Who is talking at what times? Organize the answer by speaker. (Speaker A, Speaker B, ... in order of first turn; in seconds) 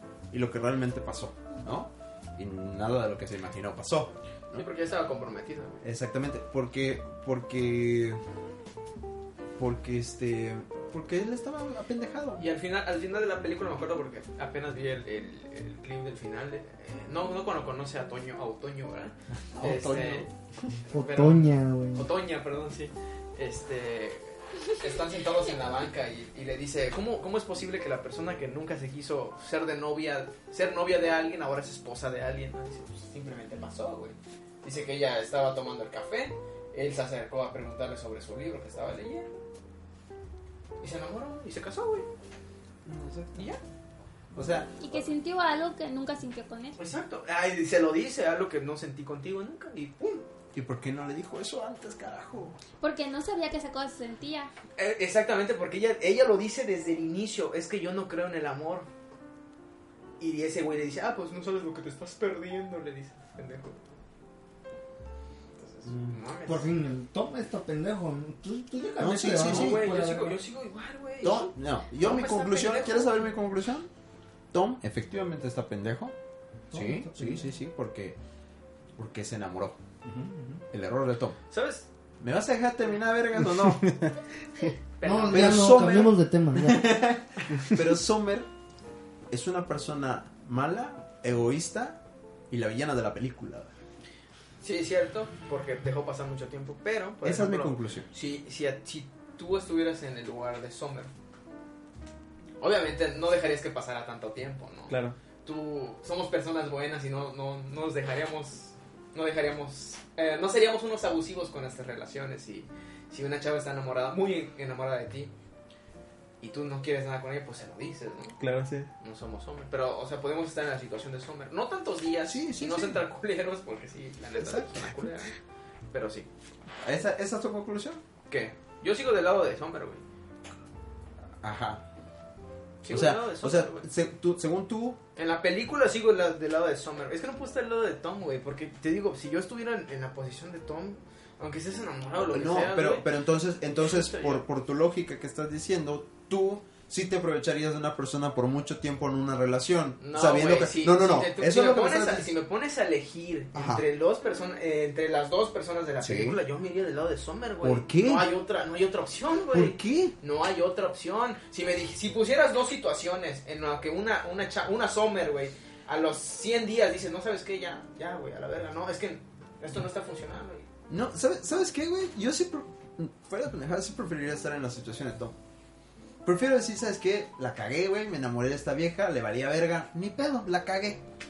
Speaker A: 0.3-4.7, 5.8-8.2, 9.6-12.4, 19.5-20.3, 42.9-43.4, 44.3-45.0, 50.5-52.6, 65.9-66.1, 69.0-69.8, 71.2-73.9, 74.5-76.1, 76.7-78.2, 79.0-79.8, 80.7-81.4, 82.2-84.0, 85.3-88.5, 89.3-92.0, 92.5-93.7, 97.2-98.1, 122.2-123.0, 124.4-124.9, 126.8-128.0, 131.4-131.8, 132.9-135.0, 142.2-152.3, 153.5-153.8, 156.0-156.4, 157.6-158.3, 159.5-160.1, 170.9-175.3, 176.2-181.0
Speaker B: 4.5-5.8, 12.4-20.3, 20.9-39.3, 40.8-42.1, 43.3-43.6, 46.8-50.2, 54.8-58.9, 60.2-63.8, 65.6-66.7, 69.3-73.2, 81.5-81.8, 85.0-85.8, 94.6-101.1, 102.6-115.3, 116.4-118.4, 119.0-125.3, 125.9-126.3, 128.3-130.0, 132.8-133.8, 135.2-143.1, 143.8-144.4, 150.0-170.7
Speaker C: 20.9-22.1, 66.5-70.4, 76.7-77.5, 80.0-80.6, 85.0-87.0
Speaker D: 44.8-46.8, 52.8-54.5
Speaker E: 83.4-84.7, 104.9-105.2, 118.4-118.9